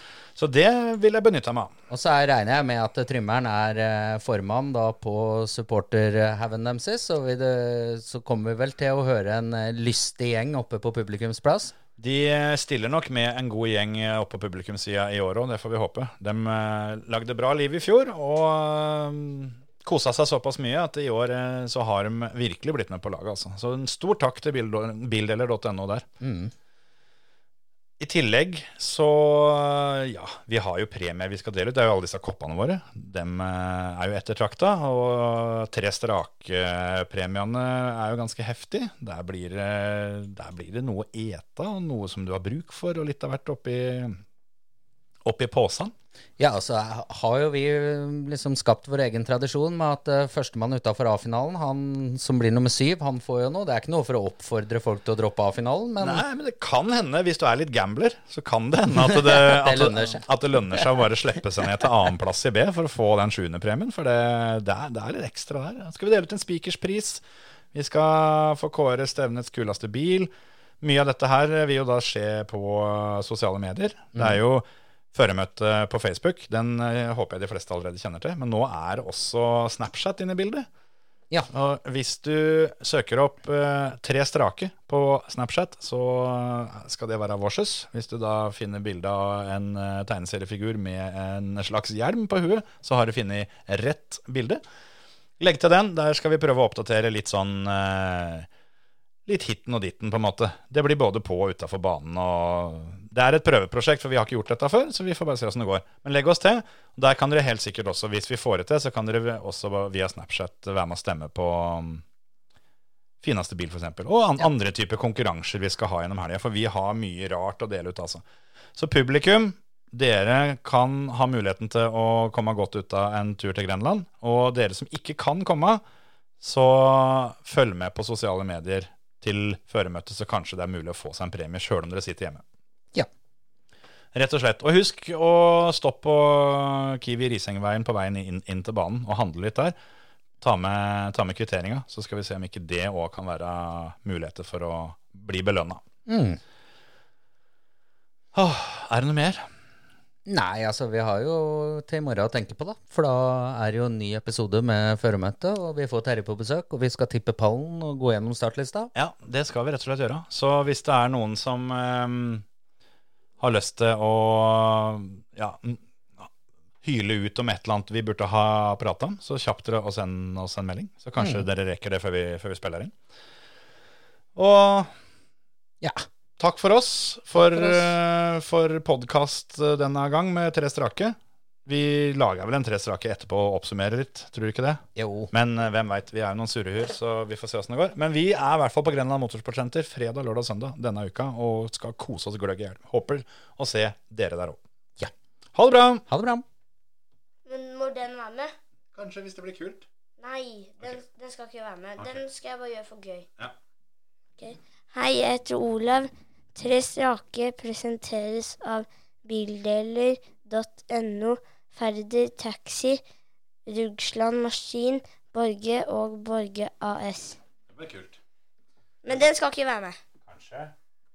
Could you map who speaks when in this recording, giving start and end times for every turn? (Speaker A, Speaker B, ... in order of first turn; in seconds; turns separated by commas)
Speaker A: 0.3-1.7, Speaker B: 1.9-11.7, Speaker A: 12.0-26.1, Speaker B: 26.2-26.5, Speaker A: 28.0-44.2, Speaker A: 45.2-45.9, Speaker B: 46.4-56.2, Speaker A: 56.0-80.7, Speaker B: 59.0-60.2, Speaker A: 81.5-94.6, Speaker A: 95.4-98.5, Speaker A: 99.2-112.0, Speaker A: 113.2-118.2, Speaker A: 118.8-125.8, Speaker A: 126.4-132.4, Speaker A: 134.1-139.8, Speaker A: 140.4-145.8, Speaker B: 146.1-146.4, Speaker A: 148.3-149.4, Speaker B: 150.2-158.9, Speaker A: 158.9-162.4, Speaker A: 163.4-166.3, Speaker A: 166.8-172.9, Speaker B: 171.2-171.4, Speaker A: 174.3-174.9, Speaker A: 176.4-194.6, Speaker B: 177.3-177.9, Speaker B: 184.9-185.3, Speaker A: 195.5-196.0, Speaker B: 196.1-196.4, Speaker C: 197.4-198.5, Speaker A: 198.9-199.8, Speaker C: 200.2-203.3, Speaker C: 204.4-213.0, Speaker C: 213.7-217.4, Speaker A: 217.7-218.2, Speaker C: 219.0-219.9, Speaker A: 220.2-220.7